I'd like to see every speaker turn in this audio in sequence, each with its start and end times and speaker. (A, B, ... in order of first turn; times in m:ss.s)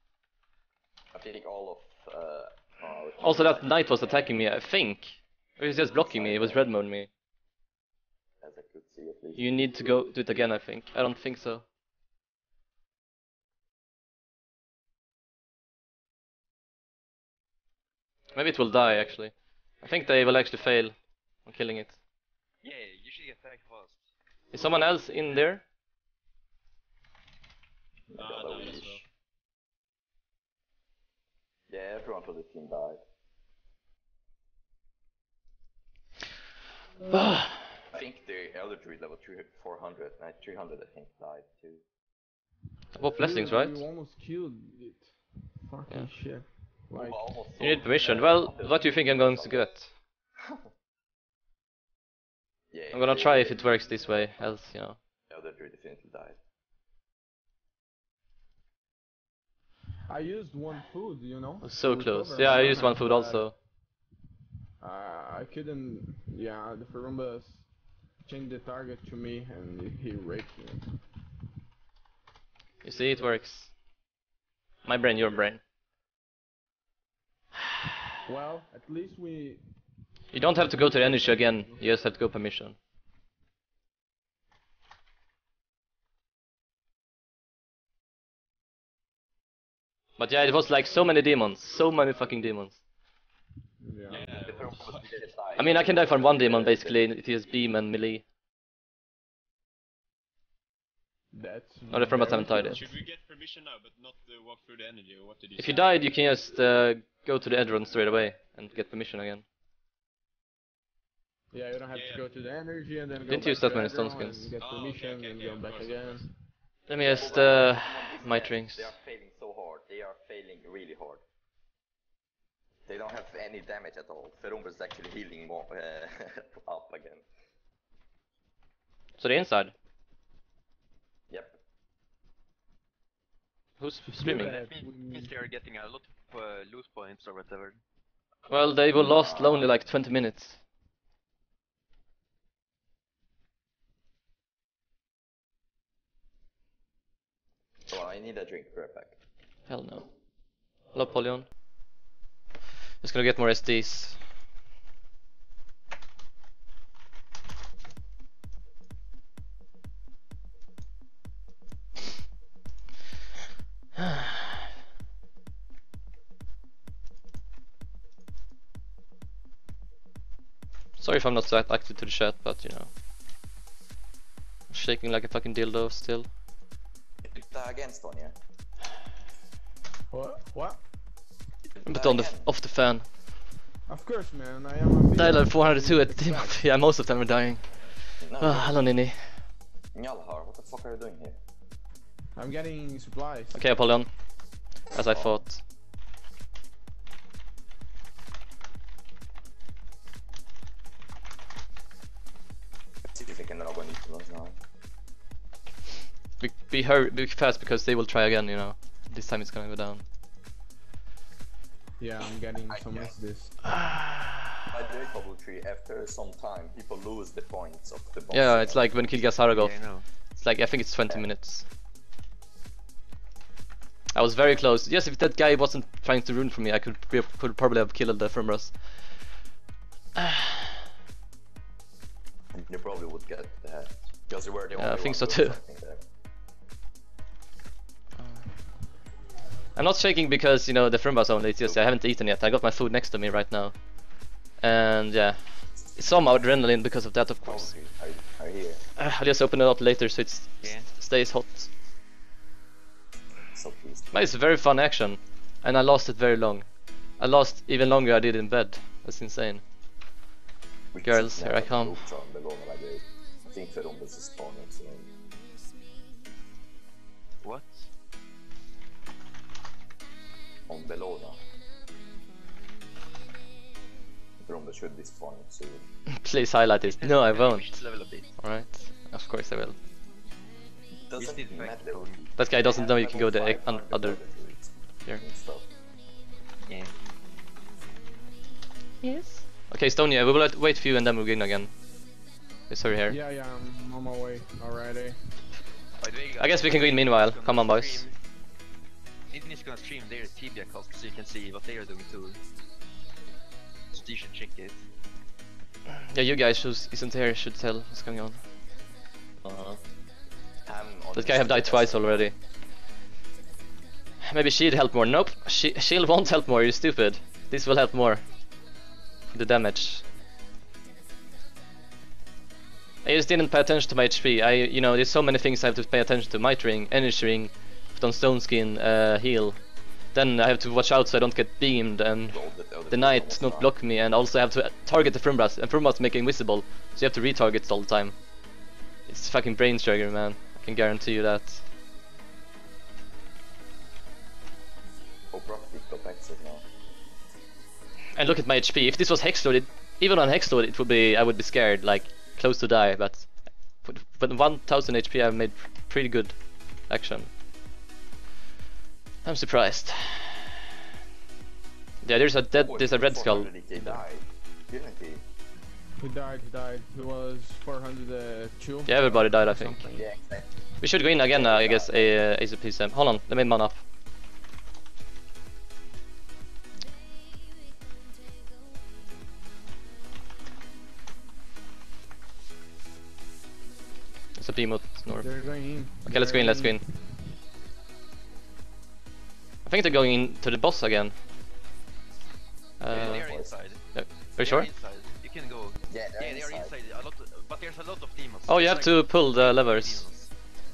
0:01.1-0:03.7 A
0:03.2-0:07.1 B
0:05.9-0:06.7 A
0:08.4-0:09.5 A
0:09.4-0:11.6 B
0:18.3-0:22.0 B
0:22.6-0:24.0 C
0:24.5-0:25.6 B
0:28.1-0:29.0 A
0:28.2-0:29.0 D
0:31.7-0:33.0 A
0:37.1-0:37.6 B
0:37.9-0:41.8 A
0:42.9-0:43.8 B
0:43.2-0:47.3 E
0:47.0-0:49.7 A
0:47.6-0:49.9 B
0:52.7-0:54.2 A
0:52.9-0:55.0 B
0:55.3-0:56.4 A
1:00.1-1:03.5 E
1:01.6-1:03.6 B
1:04.8-1:07.7 E
1:08.2-1:11.0 E
1:12.8-1:13.7 B
1:14.8-1:15.6 B
1:18.2-1:19.6 E
1:20.3-1:22.8 B
1:30.2-1:32.8 B
1:33.8-1:34.3 E
1:34.1-1:37.1 A
1:34.1-1:35.1 D
1:35.6-1:38.2 B
1:41.3-1:42.9 E
1:41.9-1:42.9 B
1:42.3-1:45.9 D
1:45.6-1:49.4 B
1:51.5-1:56.3 E
1:51.9-1:52.3 D
1:53.3-1:54.5 B
1:54.6-1:56.3 D
1:56.9-1:58.9 B
1:57.0-2:01.2 A
2:02.9-2:07.2 A
2:09.2-2:09.7 B
2:11.3-2:11.6 A
2:13.8-2:14.6 B
2:14.2-2:15.3 E
2:14.2-2:17.8 C
2:18.5-2:20.6 B
2:18.9-2:19.8 A
2:27.9-2:29.2 A
2:29.7-2:30.1 B
2:30.9-2:31.4 B
2:33.0-2:34.2 B
2:51.0-2:52.9 B
2:54.7-2:56.3 B
2:57.2-2:58.3 A
3:00.1-3:00.8 E
3:01.8-3:03.1 B
3:01.9-3:02.5 A
3:03.9-3:06.6 E
3:05.1-3:09.5 B
3:08.2-3:08.8 A
3:09.9-3:11.4 A
3:12.3-3:13.6 E
3:13.5-3:14.1 B
3:14.9-3:15.6 B
3:15.0-3:15.4 A
3:23.1-3:24.6 A
3:26.4-3:30.0 B
3:32.0-3:33.6 E
3:33.9-3:34.4 B
3:34.7-3:38.9 A
3:38.3-3:41.7 B
3:39.5-3:40.0 C
3:44.1-3:49.3 B
3:52.5-3:56.0 A
3:54.7-3:55.6 B
3:58.2-3:58.5 B
3:59.7-4:07.8 B
4:07.4-4:08.8 A
4:09.0-4:11.7 B
4:10.6-4:10.9 C
4:13.5-4:14.1 A
4:14.1-4:19.6 B
4:20.9-4:25.1 A
4:21.0-4:22.0 B
4:27.4-4:27.9 C
4:30.7-4:31.4 A
4:34.4-4:35.8 A
4:36.2-4:37.8 B
4:36.8-4:38.3 C
4:38.4-4:39.8 B
4:41.0-4:45.7 A
4:41.1-4:42.2 C
4:42.4-4:44.2 B
4:46.7-4:46.9 C
4:49.0-4:52.0 B
4:52.7-4:53.2 B
4:53.1-4:55.2 E
4:56.0-4:58.2 C
4:56.4-4:58.0 B
4:59.3-5:02.4 C
5:03.9-5:04.8 C
5:05.9-5:08.4 B
5:09.4-5:09.8 A
5:10.6-5:12.3 A
5:11.1-5:12.4 B
5:14.2-5:18.2 B
5:19.3-5:20.0 B
5:23.0-5:38.2 B
5:32.3-5:33.7 A
5:39.1-5:41.6 B
5:45.3-5:46.6 A
5:48.1-5:57.3 B
5:59.2-6:00.4 B
6:02.0-6:04.0 B
6:02.5-6:05.2 A
6:06.0-6:10.1 E
6:08.8-6:10.0 B
6:09.9-6:10.5 A
6:10.8-6:13.8 B
6:11.3-6:12.2 A
6:24.4-6:26.8 B
6:25.2-6:27.0 E
6:29.6-6:31.2 B
6:32.8-6:33.2 B
6:32.9-6:33.6 A
6:32.9-6:40.3 C
6:33.9-6:34.7 B
6:35.9-6:36.8 A
6:38.5-6:40.0 B